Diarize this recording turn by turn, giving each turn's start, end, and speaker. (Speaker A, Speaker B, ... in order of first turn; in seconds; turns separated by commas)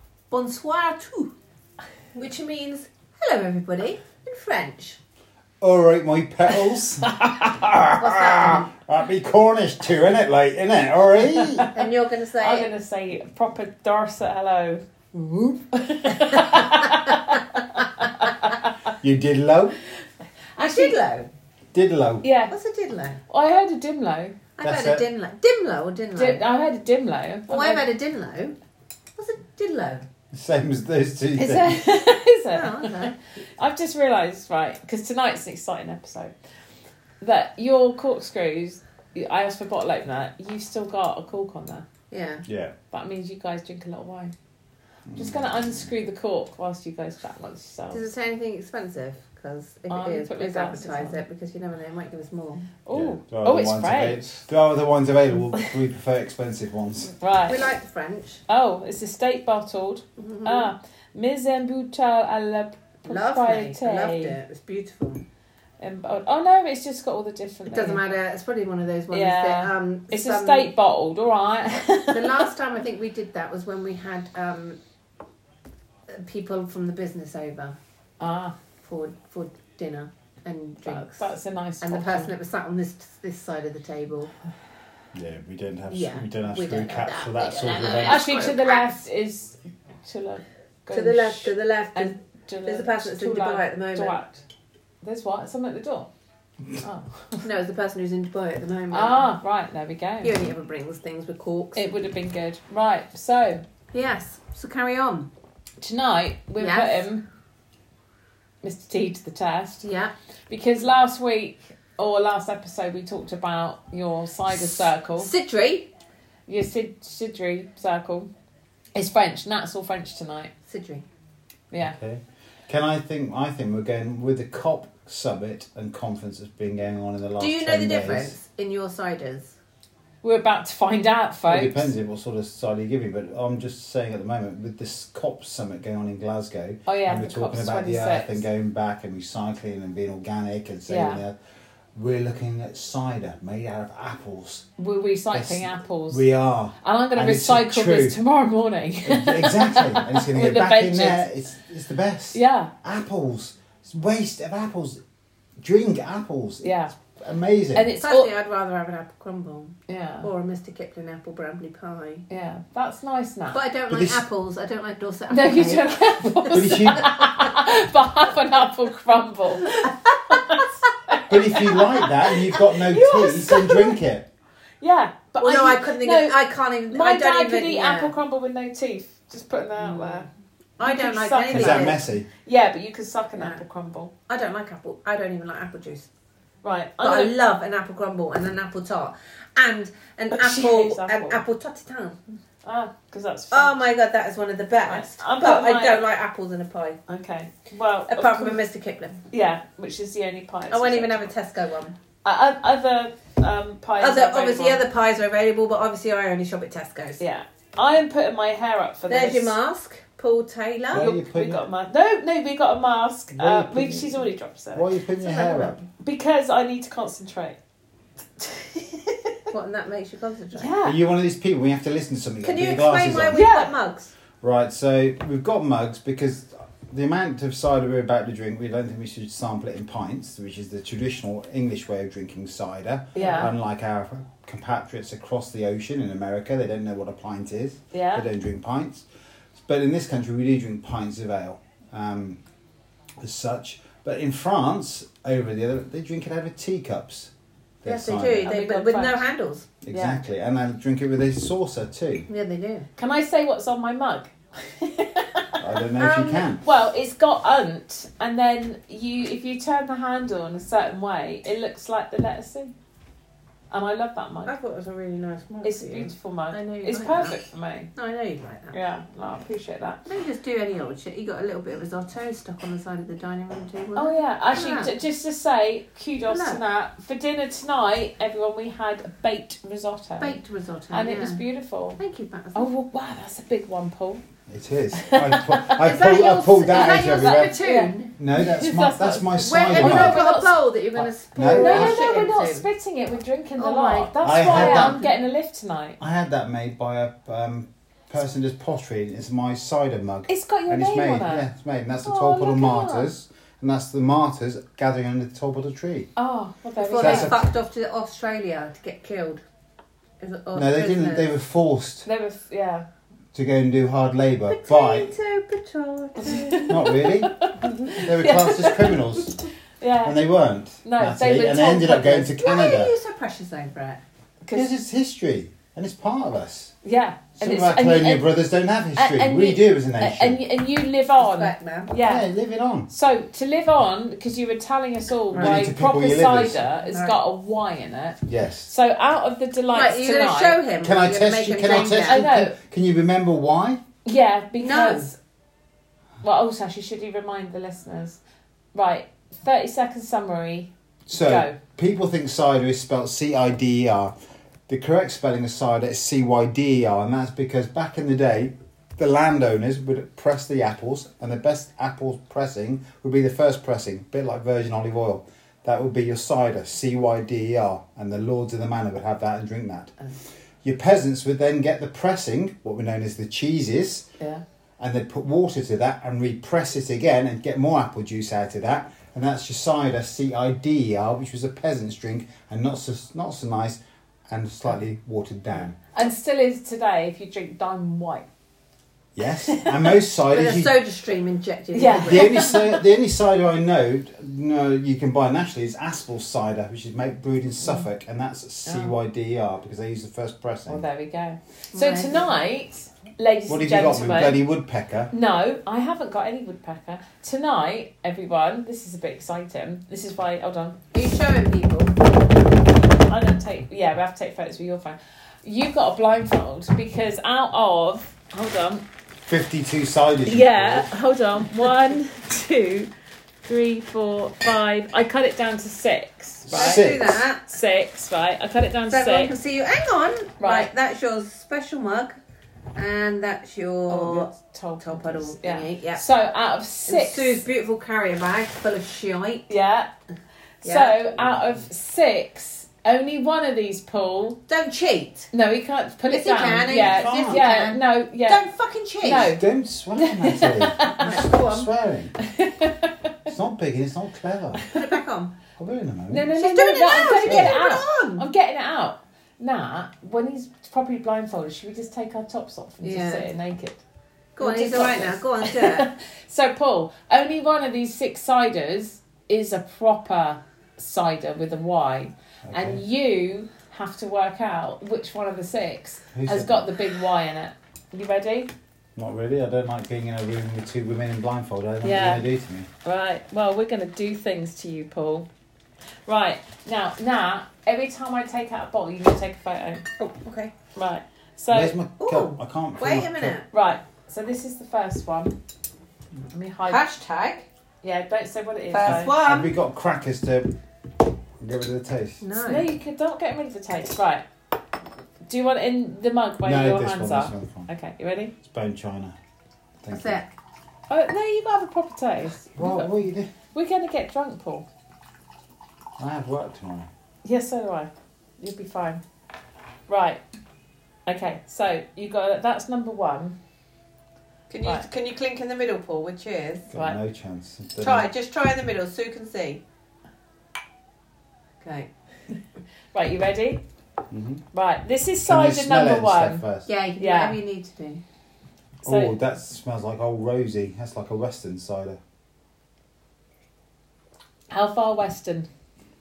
Speaker A: 0.3-1.3, Speaker A: 2.1-5.0, Speaker B: 5.6-11.7, Speaker A: 8.0-8.7, Speaker C: 11.3-11.8, Speaker A: 11.7-12.7, Speaker C: 12.4-14.8, Speaker A: 15.1-15.6, Speaker C: 15.7-18.7, Speaker A: 16.4-16.8, Speaker B: 19.0-19.8, Speaker C: 20.6-21.0, Speaker A: 20.6-21.3, Speaker B: 21.7-22.2, Speaker C: 22.2-22.5, Speaker A: 22.5-23.2, Speaker C: 23.3-24.4, Speaker A: 24.6-26.4, Speaker B: 24.6-25.0, Speaker C: 26.1-27.9, Speaker A: 27.5-28.6, Speaker A: 29.2-30.1, Speaker B: 30.3-31.8, Speaker C: 31.4-36.3, Speaker A: 32.5-33.1, Speaker C: 37.2-41.9, Speaker A: 42.1-42.4, Speaker B: 42.5-42.7, Speaker C: 42.9-44.3, Speaker B: 45.1-45.9, Speaker C: 45.1-48.0, Speaker A: 47.9-52.6, Speaker C: 49.9-51.2, Speaker C: 52.8-54.4, Speaker B: 52.9-57.1, Speaker C: 57.2-57.7, Speaker A: 57.5-58.4, Speaker C: 58.5-64.4, Speaker A: 60.2-60.7, Speaker A: 63.0-65.2, Speaker C: 65.8-68.0, Speaker A: 67.7-70.7, Speaker C: 69.1-72.5, Speaker A: 72.1-74.8, Speaker A: 76.1-77.8, Speaker C: 78.2-78.5, Speaker A: 78.8-81.3, Speaker C: 80.8-82.3, Speaker A: 81.8-84.3, Speaker B: 85.1-88.4, Speaker A: 85.9-89.0, Speaker C: 88.0-94.4, Speaker A: 90.9-94.2, Speaker C: 95.0-96.1, Speaker C: 96.8-97.5, Speaker A: 97.4-99.3, Speaker C: 98.9-100.3, Speaker A: 100.2-101.9, Speaker C: 101.7-103.6, Speaker A: 103.9-105.3, Speaker C: 105.8-107.2, Speaker A: 106.6-107.0, Speaker C: 108.6-109.8, Speaker A: 109.8-110.1, Speaker C: 110.5-115.3, Speaker A: 115.2-115.9, Speaker C: 116.5-118.3, Speaker C: 118.9-120.5, Speaker A: 120.7-121.0, Speaker B: 121.8-128.3, Speaker A: 127.4-129.5, Speaker C: 130.2-131.9, Speaker B: 131.5-141.3, Speaker C: 136.8-138.4, Speaker C: 140.9-141.2, Speaker B: 141.9-144.7, Speaker C: 144.8-146.3, Speaker B: 145.3-148.2, Speaker C: 146.8-151.2, Speaker B: 149.0-155.0, Speaker C: 152.3-152.7, Speaker B: 155.6-157.9, Speaker C: 156.6-156.9, Speaker C: 157.7-158.3, Speaker A: 158.0-162.3, Speaker C: 159.9-160.3, Speaker C: 162.3-163.6, Speaker A: 163.5-167.6, Speaker B: 163.9-164.2, Speaker C: 165.3-174.0, Speaker B: 166.5-167.0, Speaker B: 171.3-174.3, Speaker C: 174.8-176.4, Speaker A: 175.4-178.1, Speaker C: 176.9-180.3, Speaker A: 179.8-180.2, Speaker A: 180.8-182.0, Speaker C: 180.8-184.1, Speaker B: 181.5-182.3, Speaker A: 183.4-183.6, Speaker A: 184.3-186.1, Speaker C: 186.6-187.3, Speaker A: 187.0-192.2, Speaker C: 190.3-191.4, Speaker C: 192.6-193.8, Speaker A: 193.5-197.0, Speaker C: 194.9-196.0, Speaker C: 197.1-198.6, Speaker A: 198.1-199.2, Speaker C: 199.3-201.3, Speaker A: 200.7-201.9, Speaker C: 202.2-204.8, Speaker A: 204.0-207.2, Speaker C: 207.2-209.5, Speaker A: 209.1-211.1, Speaker B: 210.9-211.6, Speaker C: 210.9-214.9, Speaker B: 213.3-215.8, Speaker A: 215.2-215.8, Speaker C: 215.9-217.6, Speaker C: 218.4-219.4, Speaker A: 219.5-220.7, Speaker C: 220.5-221.0, Speaker B: 220.8-223.4, Speaker A: 222.4-224.1, Speaker C: 223.3-223.7, Speaker B: 224.4-239.1, Speaker C: 233.1-233.5, Speaker A: 233.2-233.5, Speaker C: 237.9-238.2, Speaker B: 239.6-242.4, Speaker B: 243.2-247.3, Speaker B: 247.8-248.5, Speaker A: 247.8-249.7, Speaker C: 248.4-249.2, Speaker B: 249.8-252.3, Speaker C: 249.9-250.2, Speaker A: 252.3-252.9, Speaker C: 253.0-255.6, Speaker B: 255.6-256.6, Speaker A: 256.0-256.5, Speaker C: 256.6-262.7, Speaker C: 263.7-264.5, Speaker A: 264.4-267.4, Speaker C: 265.6-267.9, Speaker A: 267.9-268.8, Speaker C: 268.7-270.1, Speaker A: 270.1-274.9, Speaker C: 273.9-280.4, Speaker A: 276.3-276.6, Speaker A: 280.2-281.4, Speaker C: 280.9-282.0, Speaker A: 282.0-282.7, Speaker C: 282.5-284.2, Speaker B: 284.5-290.3, Speaker C: 284.9-285.9, Speaker A: 285.8-288.1, Speaker C: 286.6-290.7, Speaker A: 289.4-292.7, Speaker B: 291.0-292.1, Speaker C: 291.5-296.0, Speaker A: 293.6-295.1, Speaker B: 294.2-295.0, Speaker B: 296.0-306.1, Speaker C: 300.3-301.5, Speaker C: 302.0-303.1, Speaker C: 306.1-307.4, Speaker A: 306.8-309.4, Speaker B: 307.0-307.4, Speaker A: 310.2-311.3, Speaker B: 310.5-312.1, Speaker C: 312.0-312.9, Speaker B: 313.3-315.1, Speaker A: 314.5-316.9, Speaker C: 316.2-319.0, Speaker B: 316.7-317.3, Speaker B: 318.0-319.4, Speaker C: 319.8-320.2, Speaker B: 320.0-322.9, Speaker C: 320.8-322.4, Speaker A: 322.4-324.0, Speaker C: 324.4-324.7, Speaker B: 324.5-326.7, Speaker C: 326.8-328.3, Speaker B: 327.4-330.4, Speaker C: 328.9-332.3, Speaker A: 331.2-331.9, Speaker B: 332.0-332.9, Speaker C: 332.9-340.6, Speaker A: 335.3-335.7, Speaker B: 335.3-336.6, Speaker A: 336.7-337.2, Speaker B: 338.2-338.7, Speaker A: 339.7-342.3, Speaker B: 340.8-343.8, Speaker C: 342.0-342.6, Speaker C: 344.0-345.2, Speaker A: 344.6-345.1, Speaker C: 346.2-348.2, Speaker C: 348.7-351.6, Speaker B: 351.1-354.1, Speaker B: 354.7-369.9, Speaker B: 370.6-374.1, Speaker B: 374.8-385.8, Speaker C: 385.9-388.3, Speaker B: 389.1-390.8, Speaker C: 389.4-389.8, Speaker A: 390.3-392.5, Speaker C: 391.7-392.8, Speaker B: 391.9-400.8, Speaker C: 398.6-398.9, Speaker C: 400.7-404.4, Speaker A: 401.7-402.3, Speaker B: 403.5-405.1, Speaker C: 405.1-410.8, Speaker A: 410.9-411.9, Speaker C: 412.8-418.8, Speaker B: 419.3-420.9, Speaker C: 420.2-422.9, Speaker C: 423.4-429.3, Speaker B: 426.4-427.2, Speaker A: 426.5-427.4, Speaker A: 428.9-432.2, Speaker C: 430.4-430.7, Speaker A: 432.7-436.0, Speaker C: 433.9-437.4, Speaker A: 436.9-439.5, Speaker C: 439.5-439.9, Speaker C: 440.6-444.4, Speaker A: 440.6-440.9, Speaker A: 444.5-445.3, Speaker C: 445.3-448.4, Speaker A: 446.1-449.3, Speaker B: 446.7-447.4, Speaker C: 449.0-449.4, Speaker B: 449.3-452.1, Speaker C: 450.0-451.1, Speaker A: 451.0-451.7, Speaker C: 452.2-453.3, Speaker B: 453.3-454.6, Speaker A: 454.7-455.3, Speaker B: 455.6-456.3, Speaker C: 456.1-463.8, Speaker A: 456.4-458.2, Speaker B: 457.0-457.6, Speaker A: 462.8-463.3, Speaker A: 464.4-465.9, Speaker C: 464.4-478.5, Speaker B: 472.4-472.8, Speaker B: 476.1-476.7, Speaker B: 478.9-482.7, Speaker C: 481.8-482.3, Speaker C: 482.8-485.3, Speaker C: 486.1-489.8, Speaker A: 490.0-490.5, Speaker C: 490.8-491.7, Speaker B: 491.5-493.3, Speaker A: 492.0-493.5, Speaker C: 493.5-495.3, Speaker C: 496.3-496.8, Speaker A: 496.7-497.4, Speaker C: 497.8-499.1, Speaker A: 498.7-499.5, Speaker B: 498.8-500.5, Speaker B: 501.4-502.2, Speaker A: 502.2-502.7, Speaker C: 502.4-504.2, Speaker C: 505.2-508.3, Speaker B: 506.4-507.7, Speaker B: 508.4-509.1, Speaker B: 509.8-510.2, Speaker A: 509.9-510.3, Speaker C: 510.9-512.9, Speaker B: 512.6-513.3, Speaker C: 513.5-514.7, Speaker B: 516.0-516.9, Speaker C: 517.2-519.0, Speaker C: 519.9-520.2, Speaker C: 521.1-523.4, Speaker A: 524.5-526.7, Speaker B: 526.7-528.1, Speaker A: 527.8-529.6, Speaker A: 531.6-531.9, Speaker C: 532.9-533.6, Speaker B: 534.1-534.4, Speaker C: 534.5-536.4, Speaker B: 535.2-536.7, Speaker A: 536.6-538.0, Speaker C: 537.0-537.4, Speaker B: 538.8-542.0, Speaker C: 538.8-539.1, Speaker C: 544.5-545.5